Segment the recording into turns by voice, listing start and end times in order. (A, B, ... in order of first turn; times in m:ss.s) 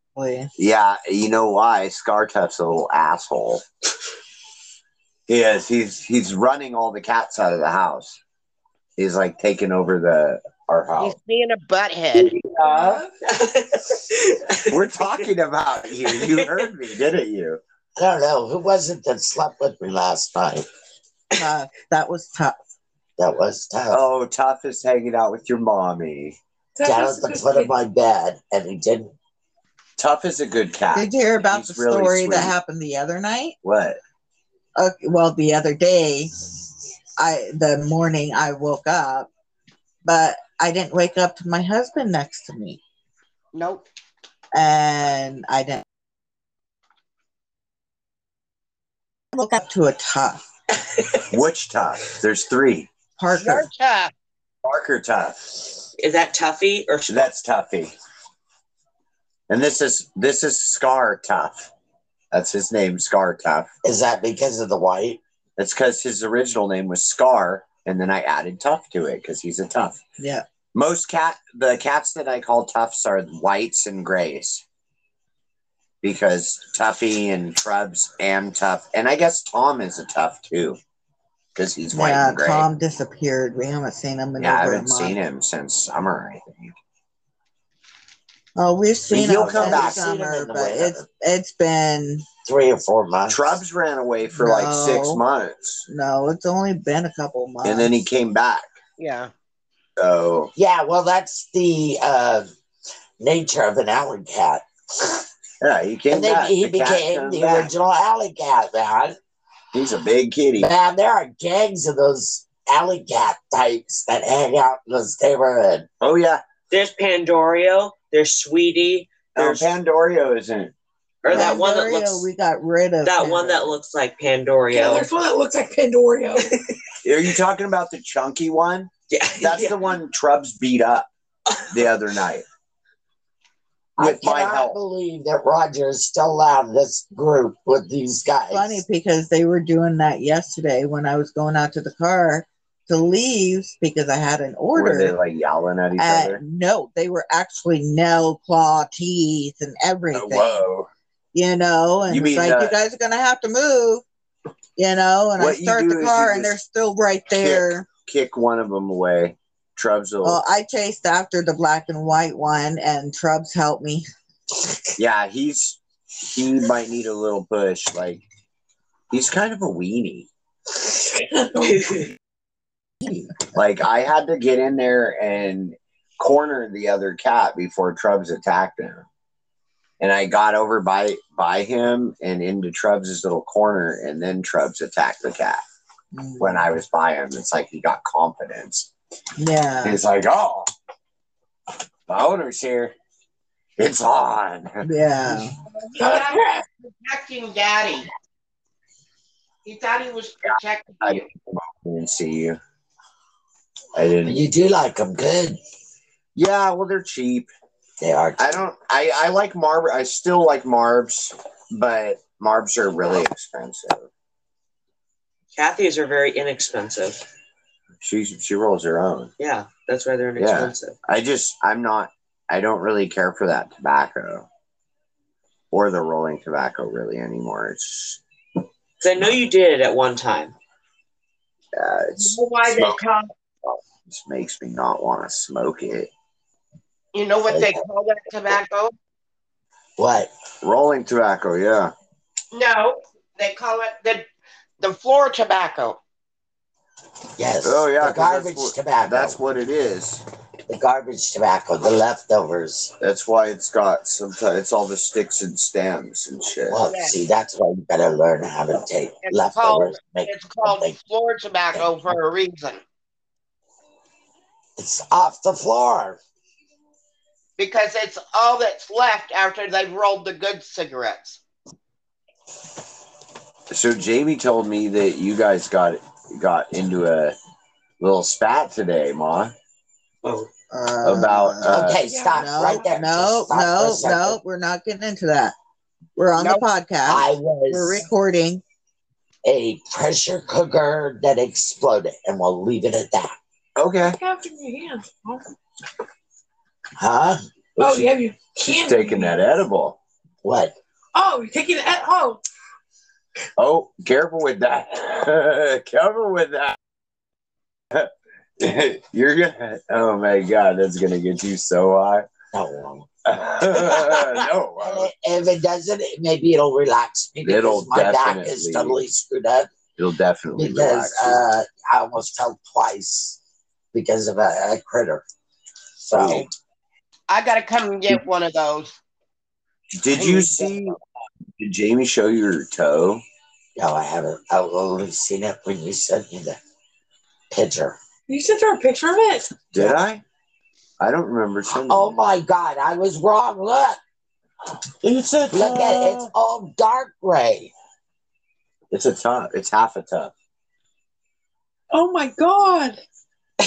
0:00.2-0:00.5 A
0:00.6-0:03.6 B
0:05.3-0:08.2 B
0:09.0-0:11.2 B
0:11.0-0:12.3 C
0:12.2-0:15.3 D
0:12.5-0:13.1 E
0:14.7-0:17.6 B
0:16.0-0:16.7 D
0:18.0-0:20.6 F
0:21.3-0:22.6 A
0:23.2-0:24.0 F
0:23.9-0:26.4 B
0:26.8-0:27.7 E
0:26.8-0:29.1 F
0:30.0-0:32.5 B
0:30.9-0:33.6 A
0:33.6-0:34.0 B
0:34.8-0:36.3 A
0:37.2-0:39.3 A
0:40.0-0:42.8 A
0:43.5-0:43.8 C
0:44.5-0:45.8 A
0:49.3-0:50.4 A
0:50.9-0:51.2 D
0:51.3-0:52.9 B
0:53.2-0:53.7 A
0:53.4-0:54.1 C
0:54.6-0:55.5 B
0:56.0-0:57.3 D
0:57.1-0:57.9 B
0:59.5-1:01.7 B
1:02.3-1:03.7 B
1:03.8-1:05.2 F
1:05.6-1:10.0 B
1:10.2-1:10.4 A
1:10.7-1:14.6 B
1:16.0-1:20.8 B
1:21.5-1:22.7 B
1:21.9-1:25.2 A
1:24.4-1:26.8 B
1:28.6-1:32.2 A
1:29.1-1:30.5 B
1:29.2-1:31.0 F
1:32.4-1:33.6 F
1:33.3-1:35.8 B
1:34.3-1:35.2 A
1:35.9-1:38.0 A
1:37.6-1:38.7 B
1:39.0-1:39.3 C
1:40.0-1:40.5 B
1:40.6-1:42.5 F
1:43.2-1:45.2 F
1:45.6-1:47.7 B
1:46.1-1:49.2 F
1:49.7-1:50.7 B
1:50.6-1:55.9 F
1:56.0-1:56.4 B
1:56.7-1:59.7 D
1:59.3-2:00.7 B
2:01.2-2:02.3 D
2:01.2-2:01.5 B
2:01.3-2:03.8 A
2:03.0-2:05.1 D
2:04.7-2:06.5 E
2:07.0-2:11.1 B
2:09.1-2:09.8 D
2:11.7-2:12.4 B
2:14.0-2:18.8 F
2:14.0-2:14.8 B
2:18.5-2:25.2 A
2:24.7-2:26.4 B
2:26.0-2:30.6 A
2:30.1-2:30.9 B
2:31.3-2:34.0 A
2:32.1-2:32.8 B
2:34.8-2:37.9 A
2:35.4-2:36.6 B
2:37.3-2:40.4 B
2:40.2-2:44.0 A
2:45.0-2:48.2 B
2:49.1-2:50.3 B
2:51.1-2:52.0 E
2:53.5-2:59.0 B
3:00.0-3:05.6 B
3:06.1-3:06.7 A
3:06.4-3:08.9 B
3:09.4-3:10.0 A
3:09.8-3:10.7 B
3:12.1-3:12.9 B
3:13.8-3:14.8 B
3:14.8-3:15.6 A
3:15.8-3:18.1 C
3:16.0-3:16.6 E
3:19.6-3:21.2 C
3:21.0-3:22.6 B
3:23.9-3:24.4 B
3:24.2-3:25.6 F
3:26.4-3:27.5 B
3:28.0-3:28.6 F
3:28.4-3:34.1 B
3:35.5-3:37.2 D
3:38.0-3:39.3 B
3:39.4-3:40.9 D
3:40.4-3:44.5 B
3:45.7-3:48.2 B
3:49.0-3:50.5 D
3:51.7-3:53.0 B
3:52.2-3:53.3 C
3:54.0-3:56.1 B
3:57.1-3:58.9 C
3:57.5-3:57.8 F
4:00.0-4:00.3 F
4:00.6-4:01.9 B
4:02.5-4:04.2 C
4:04.8-4:06.0 C
4:07.4-4:09.4 F
4:07.6-4:10.2 B
4:10.7-4:12.9 F
4:13.0-4:16.8 B
4:16.7-4:21.0 F
4:16.8-4:17.2 C
4:19.2-4:22.8 C
4:21.7-4:22.1 F
4:24.8-4:26.2 F
4:27.6-4:31.4 C
4:33.7-4:37.4 B
4:38.0-4:39.5 B
4:40.2-4:40.5 D
4:40.7-4:41.7 A
4:41.0-4:42.0 B
4:41.6-4:44.4 F
4:42.0-4:42.9 E
4:42.3-4:45.5 A
4:46.2-4:48.6 A
4:46.4-4:46.6 C
4:47.0-4:48.0 F
4:49.4-4:53.4 F
4:53.8-4:54.2 B
4:54.2-4:55.5 E
4:57.0-4:58.1 F
4:57.8-4:59.5 E
4:58.5-5:00.0 B
5:00.4-5:00.8 F
5:01.1-5:02.4 E
5:03.6-5:06.8 B
5:07.9-5:12.3 B
5:12.5-5:19.7 F
5:13.2-5:15.1 B
5:17.4-5:19.0 B
5:20.0-5:21.4 B
5:20.6-5:23.4 F
5:23.9-5:25.2 F
5:26.0-5:26.5 F
5:26.1-5:26.5 B
5:27.3-5:29.0 C
5:29.9-5:31.0 B
5:30.2-5:31.0 C
5:31.6-5:33.2 B
5:33.8-5:36.6 F
5:37.5-5:38.0 F
5:38.3-5:39.6 E
5:39.7-5:40.2 B
5:39.8-5:40.0 F
5:41.0-5:42.1 B
5:41.7-5:44.0 F
5:45.0-5:46.3 B
5:45.5-5:47.7 F
5:48.9-5:50.3 B
5:51.9-5:53.0 E